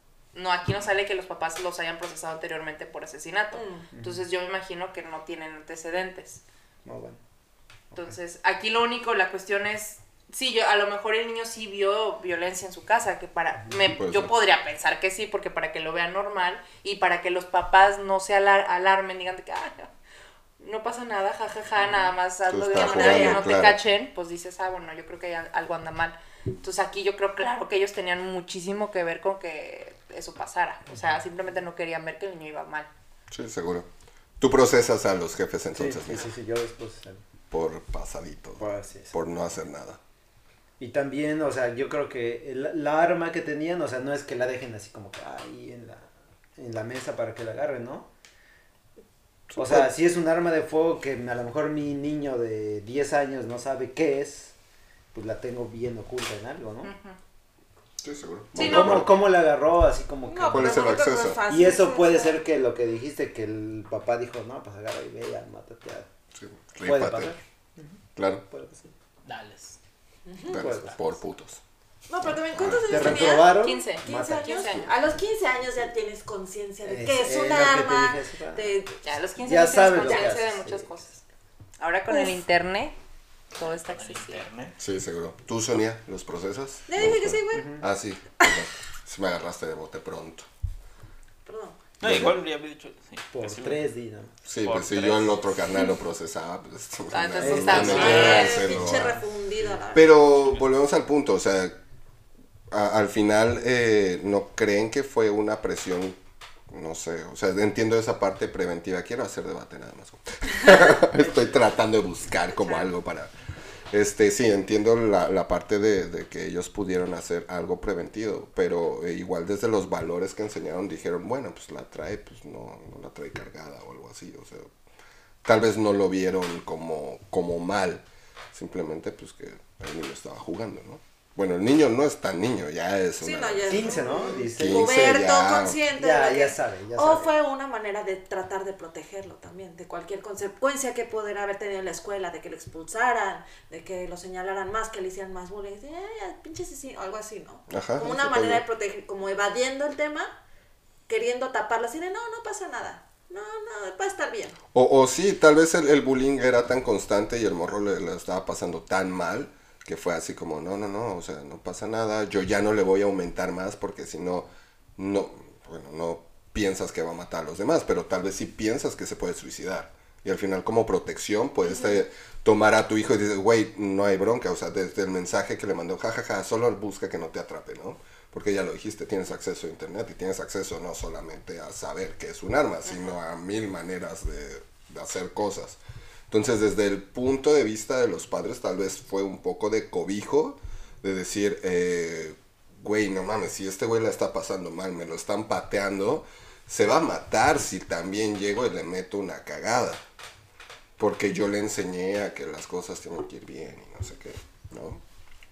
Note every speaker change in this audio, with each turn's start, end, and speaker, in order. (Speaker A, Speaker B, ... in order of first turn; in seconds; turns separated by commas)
Speaker A: 0.3-6.4, Speaker B: 3.5-3.9, Speaker C: 3.9-4.2, Speaker C: 6.8-7.2, Speaker A: 7.9-19.9, Speaker D: 14.0-14.3, Speaker A: 20.6-32.9, Speaker C: 21.8-22.1, Speaker D: 22.5-23.8, Speaker B: 22.8-23.6, Speaker C: 30.9-31.2, Speaker D: 33.3-33.9, Speaker D: 34.4-36.3, Speaker C: 35.7-37.2, Speaker D: 37.5-40.0, Speaker C: 38.6-39.1, Speaker C: 40.8-48.1, Speaker D: 49.5-49.9, Speaker C: 49.5-54.5, Speaker C: 55.1-56.9, Speaker A: 56.8-57.2, Speaker D: 58.0-59.2, Speaker C: 58.5-66.1, Speaker A: 58.5-59.1, Speaker B: 60.2-62.4, Speaker D: 60.5-61.4, Speaker D: 66.3-67.3, Speaker C: 66.8-68.0, Speaker D: 68.2-68.4, Speaker C: 68.5-68.9, Speaker E: 69.2-69.8, Speaker B: 70.2-70.7, Speaker C: 70.4-71.0, Speaker D: 70.5-71.6, Speaker B: 72.1-79.0, Speaker D: 72.3-73.3, Speaker C: 72.7-74.9, Speaker A: 73.5-74.8, Speaker C: 76.8-78.8, Speaker A: 79.0-81.2, Speaker C: 79.4-81.1, Speaker B: 80.0-80.3, Speaker A: 81.8-83.0, Speaker B: 82.1-82.4, Speaker A: 83.5-84.4, Speaker E: 83.8-84.7, Speaker D: 84.8-90.5, Speaker B: 86.9-87.7, Speaker C: 87.5-87.8, Speaker B: 91.5-91.8, Speaker E: 92.0-93.8, Speaker D: 92.0-92.3, Speaker C: 93.3-94.4, Speaker D: 94.5-99.2, Speaker E: 94.6-95.5, Speaker A: 97.1-98.7, Speaker C: 97.4-98.3, Speaker B: 97.7-100.1, Speaker E: 97.9-99.2, Speaker D: 99.9-101.8, Speaker D: 102.7-106.2, Speaker D: 106.7-113.3, Speaker C: 111.2-111.6, Speaker D: 113.9-124.7, Speaker D: 125.4-134.0, Speaker B: 133.2-150.4, Speaker C: 133.7-135.2, Speaker D: 134.6-135.8, Speaker C: 135.9-137.3, Speaker D: 147.7-148.6, Speaker B: 151.1-154.6, Speaker D: 154.7-200.0, Speaker D: 201.0-205.0